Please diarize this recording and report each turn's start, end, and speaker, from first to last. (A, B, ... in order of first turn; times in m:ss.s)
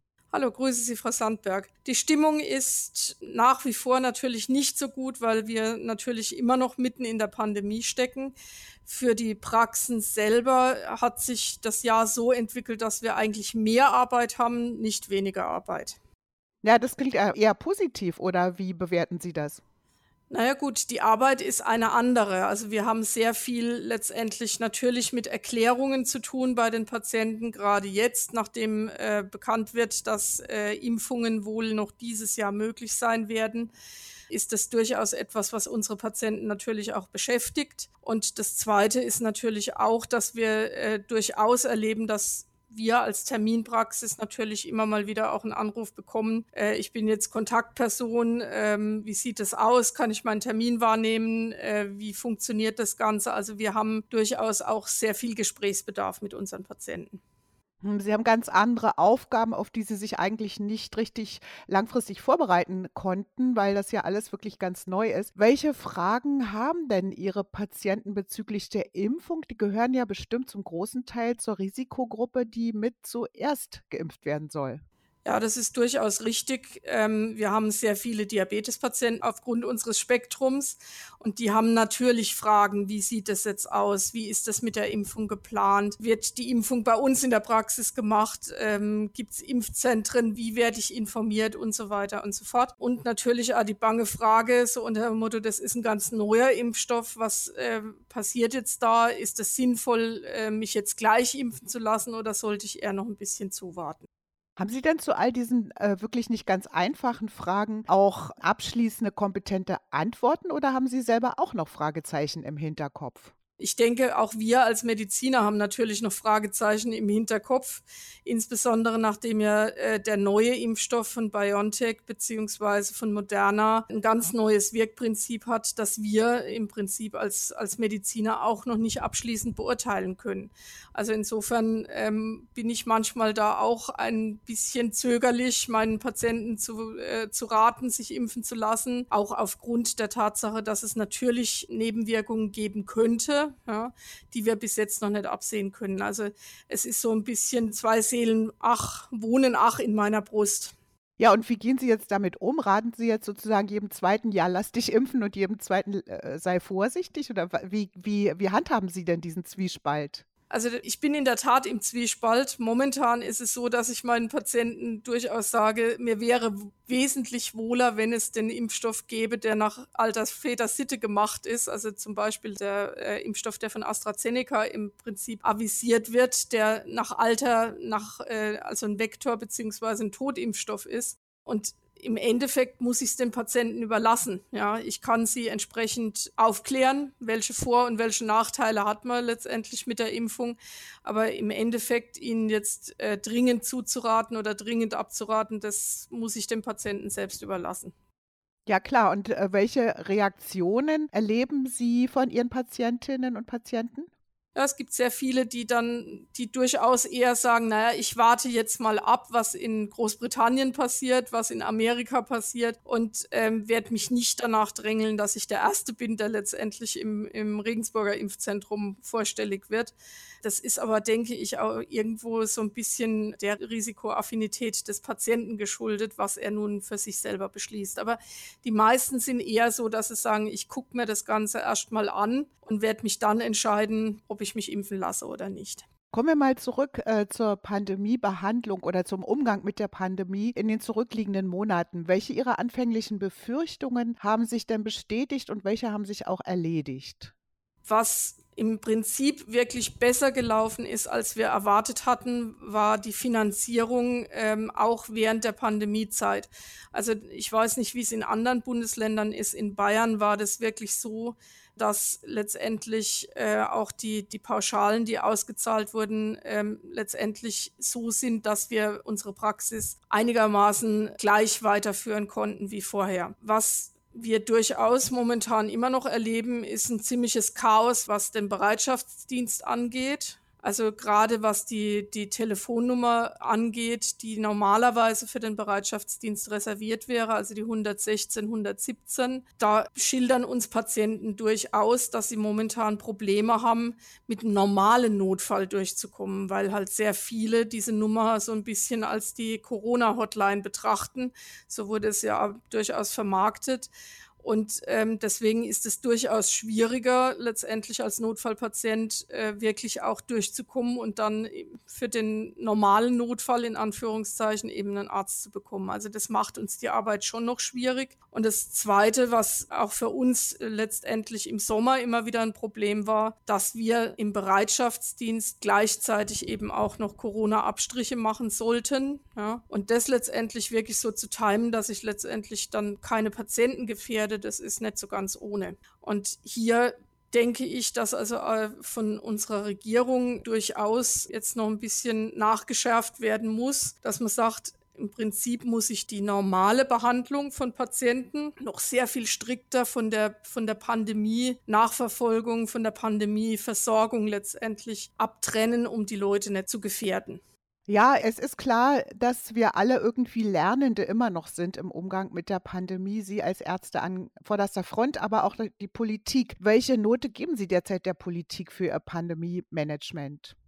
0:00.3-0:16.0 A
0:16.6-0:19.6 B
0:20.3-0:33.7 A
0:34.3-0:57.2 A
0:57.8-1:14.8 B
1:15.2-1:44.0 A
1:44.6-1:53.3 B
1:53.6-2:30.7 A
2:31.2-2:40.2 B
2:40.5-3:17.9 A
3:18.7-3:24.1 B
3:24.5-3:55.8 A
3:56.1-4:07.3 B
4:07.8-5:57.4 A
5:57.9-6:10.5 B